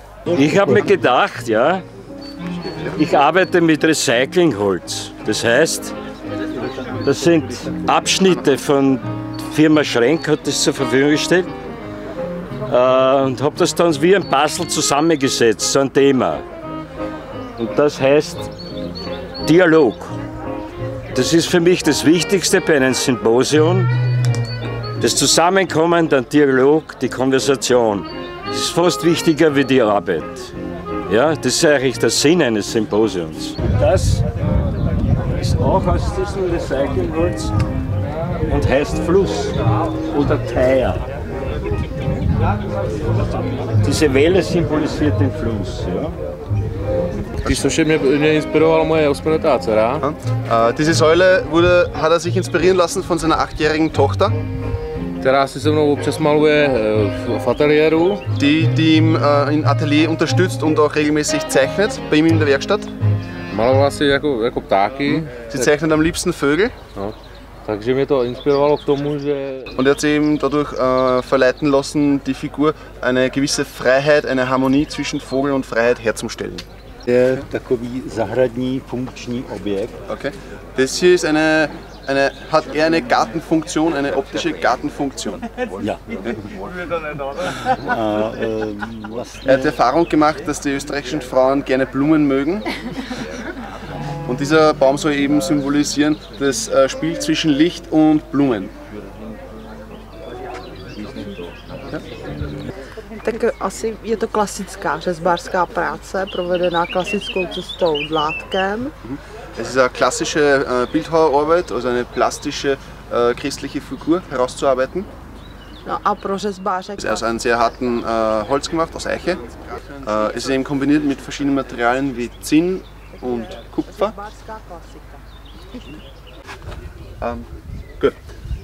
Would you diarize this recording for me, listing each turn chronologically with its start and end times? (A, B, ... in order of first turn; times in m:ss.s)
0:00.3-0:01.8 A
0:03.0-0:05.9 A
0:07.0-0:11.5 A
0:12.7-0:16.4 A
0:17.6-0:18.5 A
0:19.4-0:20.2 A
0:21.1-0:23.9 A
0:25.0-0:30.5 A
0:31.1-0:34.2 A
0:35.4-0:37.5 A
0:38.5-0:39.5 A
0:40.1-0:41.0 A
0:43.8-0:46.2 A
0:47.4-0:50.0 B
0:47.4-0:47.8 C
0:50.0-0:54.4 C
0:55.2-0:58.2 B
0:58.4-1:02.9 C
1:03.5-1:05.4 B
1:05.5-1:06.7 C
1:07.0-1:09.7 B
1:09.8-1:16.7 C
1:17.1-1:20.0 D
1:20.1-1:25.4 C
1:25.8-1:26.3 D
1:27.7-1:29.7 D
1:29.4-1:32.7 C
1:34.3-1:38.7 C
1:43.2-1:48.9 E
1:49.0-1:55.1 C
1:55.9-1:57.1 E
1:57.0-2:04.2 C
2:04.4-2:05.0 E
2:07.2-2:07.5 C